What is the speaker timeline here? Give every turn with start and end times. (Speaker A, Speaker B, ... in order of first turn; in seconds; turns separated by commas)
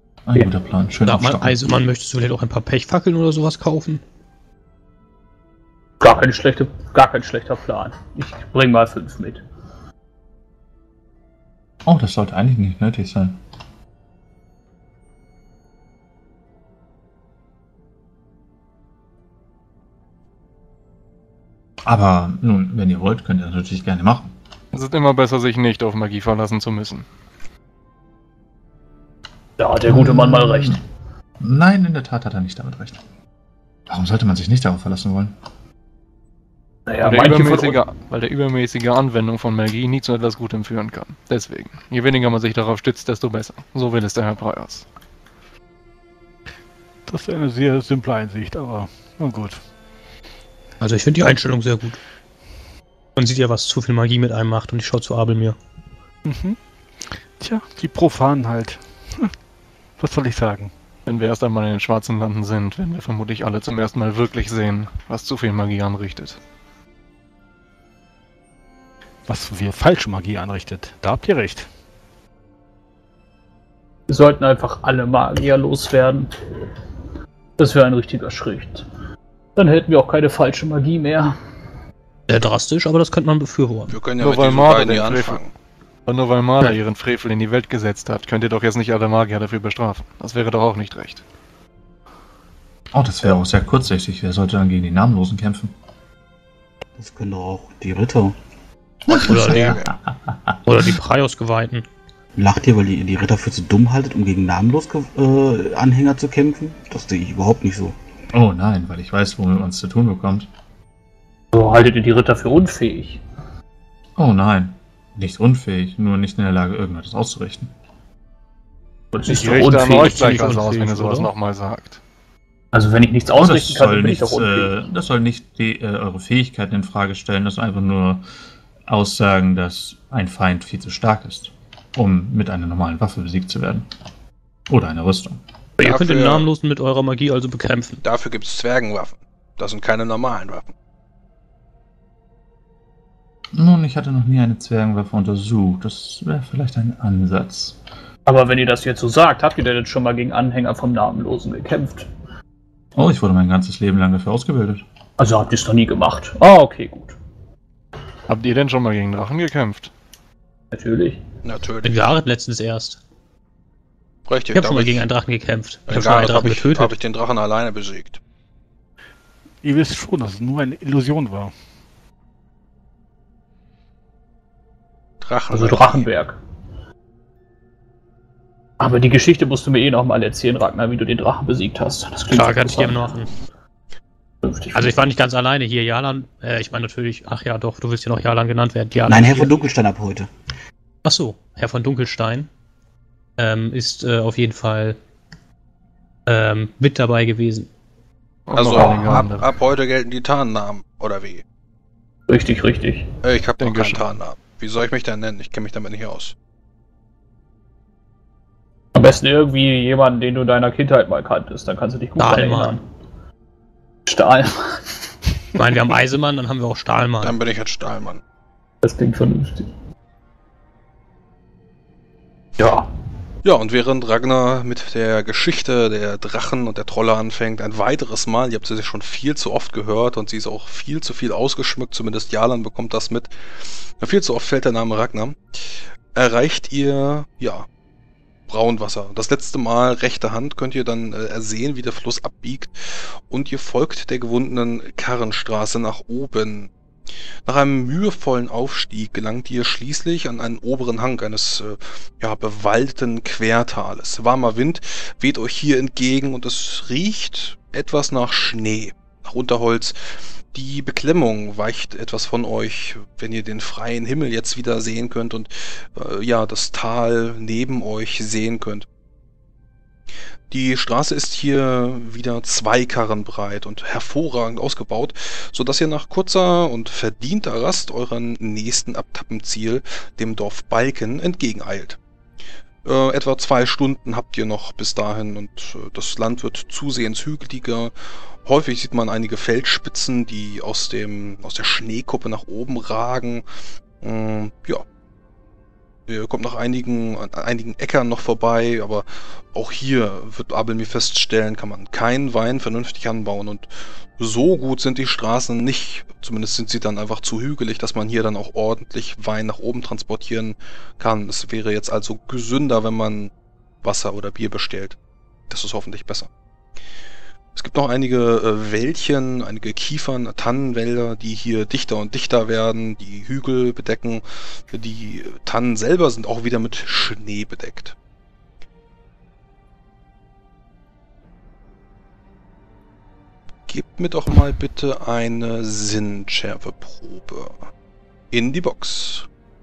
Speaker A: 0.2-1.8, Speaker B: 1.1-4.0, Speaker C: 6.0-9.4, Speaker A: 11.8-13.4, Speaker A: 21.8-24.3, Speaker D: 24.7-27.1, Speaker C: 29.6-30.8, Speaker A: 29.9-30.8, Speaker A: 31.4-33.0, Speaker A: 33.9-35.3, Speaker C: 36.9-37.8, Speaker D: 37.0-44.9, Speaker E: 47.1-49.6, Speaker B: 50.8-52.0, Speaker B: 53.1-55.6, Speaker E: 56.2-59.3, Speaker E: 60.0-60.7, Speaker D: 61.0-66.4, Speaker E: 69.2-71.7, Speaker C: 74.1-76.3, Speaker C: 77.6-78.8, Speaker C: 79.5-81.3, Speaker B: 82.3-83.9, Speaker F: 83.9-85.5, Speaker D: 84.2-85.4, Speaker D: 86.0-91.2, Speaker A: 92.9-95.7, Speaker G: 97.0-98.3, Speaker A: 99.0-100.6, Speaker F: 99.1-99.9, Speaker B: 99.3-99.8, Speaker B: 100.7-101.8, Speaker G: 102.3-108.0, Speaker A: 108.3-110.5, Speaker C: 111.5-113.2, Speaker A: 114.2-117.7, Speaker C: 119.1-120.5, Speaker D: 119.3-122.0, Speaker B: 119.8-121.3, Speaker C: 122.7-124.7, Speaker A: 123.3-128.2, Speaker A: 128.9-133.9, Speaker A: 134.7-135.4, Speaker F: 135.8-136.5, Speaker B: 135.8-138.0, Speaker F: 138.0-140.7, Speaker A: 143.5-147.8, Speaker C: 148.2-152.1, Speaker A: 152.9-154.8, Speaker C: 155.2-157.2, Speaker D: 158.3-159.9, Speaker C: 160.7-161.2, Speaker F: 161.4-162.1, Speaker B: 161.8-163.0, Speaker F: 164.3-165.1, Speaker B: 164.5-166.9, Speaker F: 165.9-168.2, Speaker E: 169.6-171.5, Speaker F: 175.2-176.1, Speaker C: 175.5-176.4, Speaker C: 178.8-183.2, Speaker B: 182.3-183.3, Speaker C: 184.4-185.0, Speaker B: 184.7-189.5, Speaker G: 189.1-190.3, Speaker B: 191.0-192.5, Speaker B: 193.4-195.0, Speaker B: 196.2-197.7, Speaker D: 198.5-199.5, Speaker F: 198.5-201.4, Speaker C: 198.7-199.3, Speaker C: 202.3-203.1, Speaker F: 203.2-206.3, Speaker D: 203.6-204.1, Speaker C: 208.9-212.8, Speaker B: 212.2-212.8, Speaker C: 214.1-215.1, Speaker B: 215.5-217.3, Speaker F: 217.2-218.2, Speaker C: 218.8-219.7, Speaker C: 222.6-222.9, Speaker F: 223.4-233.3, Speaker F: 233.9-235.4, Speaker F: 236.1-237.7, Speaker F: 238.5-246.7, Speaker F: 247.4-259.9, Speaker F: 260.5-268.9, Speaker F: 270.5-282.0, Speaker F: 282.8-287.9, Speaker F: 288.4-293.4, Speaker F: 294.0-294.8, Speaker F: 296.1-313.3, Speaker F: 313.8-315.0, Speaker F: 315.5-316.3, Speaker F: 317.5-327.9, Speaker F: 333.7-337.6, Speaker F: 338.3-339.3